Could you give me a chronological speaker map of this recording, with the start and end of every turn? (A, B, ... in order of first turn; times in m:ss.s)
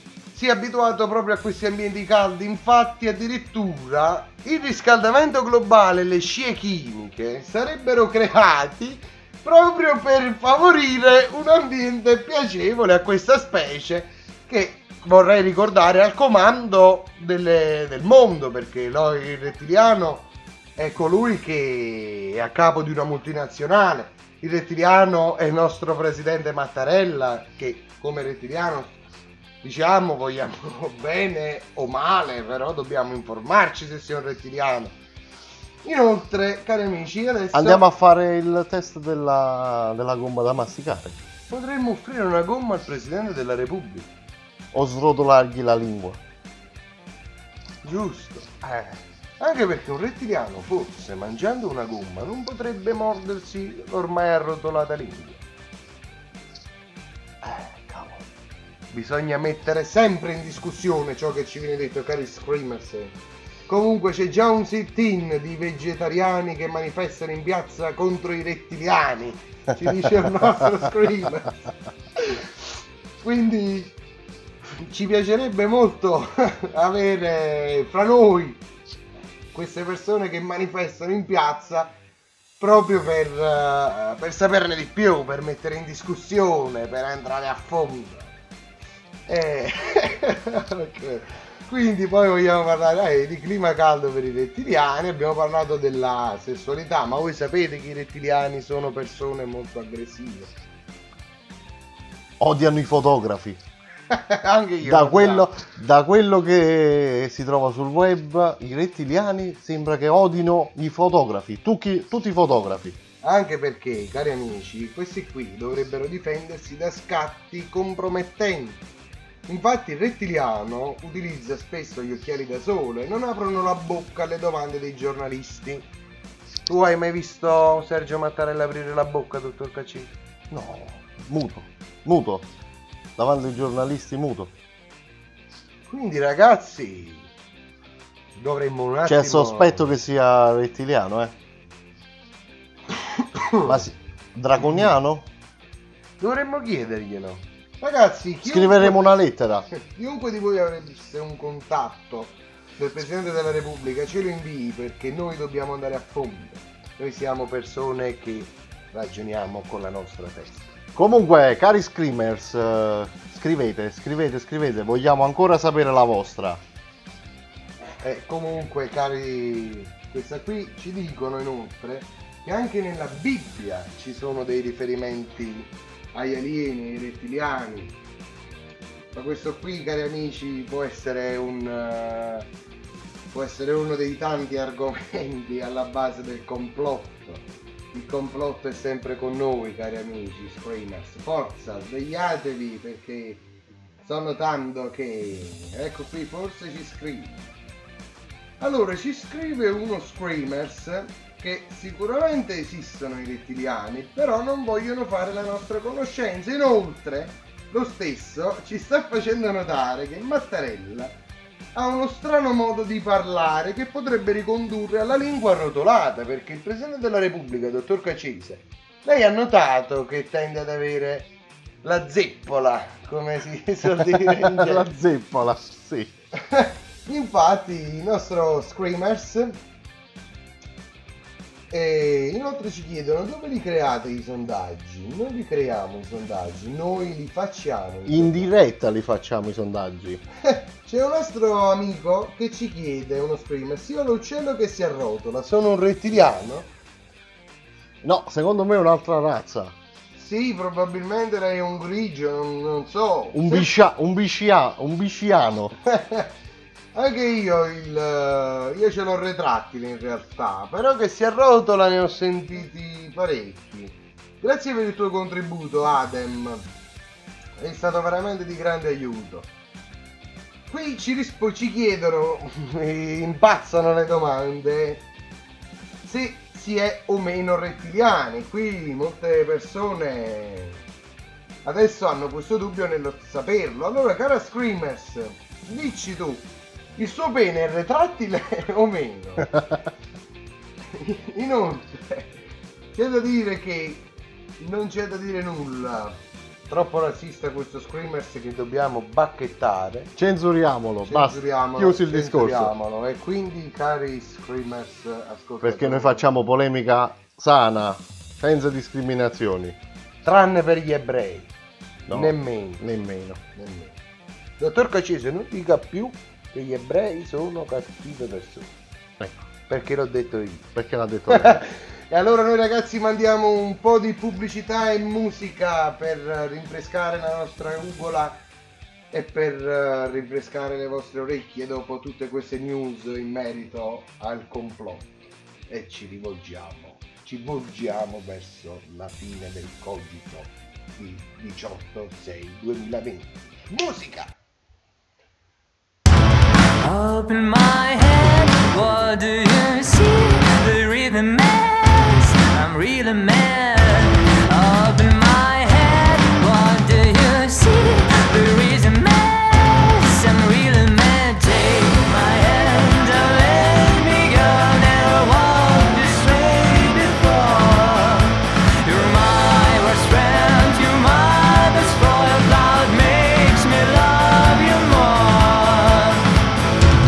0:00.3-0:29.0 A
0:29.6-0:35.0 A
0:35.8-0:37.9 A
0:37.5-0:41.2 B
0:41.5-0:44.1 A
0:44.7-0:46.2 B
0:47.8-0:48.6 A
0:48.6-0:49.0 B
0:49.4-0:55.4 A
0:57.4-0:58.2 B
0:58.9-1:03.2 A
1:03.7-1:11.6 A
1:13.2-1:14.0 A
1:14.8-1:18.6 A
1:19.5-1:22.0 A
1:22.6-1:28.3 A
1:29.3-1:40.5 A
1:42.4-1:43.6 B
1:44.1-1:45.5 A
1:44.8-1:53.0 B
1:53.2-1:58.8 A
1:59.5-2:05.9 A
2:06.7-2:10.1 A
2:10.5-2:12.5 B
2:13.2-2:14.5 B
2:15.9-2:17.3 A
2:18.4-2:19.9 A
2:19.0-2:21.3 B
2:23.1-2:23.8 A
2:23.7-2:25.3 B
2:26.2-2:29.0 A
2:28.4-2:29.7 B
2:29.8-2:40.7 A
2:41.0-2:46.6 B
2:48.0-2:58.0 A
2:59.1-3:02.5 A
3:03.3-3:13.5 A
3:14.0-3:17.4 A
3:18.6-3:31.1 A
3:31.8-3:41.3 A
3:41.8-3:44.9 A
3:44.0-3:46.1 B
3:46.5-3:49.6 A
3:51.7-3:58.5 A
3:58.1-4:00.2 B
4:00.5-4:06.7 A
4:08.0-4:09.8 B
4:10.2-4:13.7 A
4:13.3-4:15.8 B
4:15.9-4:16.3 A
4:16.9-4:26.7 A
4:27.6-4:29.5 A
4:30.7-4:35.0 A
4:36.1-4:40.8 A
4:41.6-4:49.5 A
4:50.9-4:52.3 A
4:52.9-4:54.0 A
4:54.6-4:56.2 A
4:56.7-5:00.1 A
5:00.2-5:02.7 B
5:01.0-5:06.2 A
5:05.6-5:09.8 B
5:10.2-5:11.5 A
5:12.1-5:13.4 B
5:12.1-5:12.8 A
5:13.6-5:14.0 A
5:14.6-5:18.7 A
5:19.2-5:19.5 B
5:19.7-5:20.7 A
5:20.8-5:21.6 B
5:21.3-5:28.4 A
5:29.1-5:35.1 A
5:35.7-5:44.3 A
5:46.8-6:16.3 C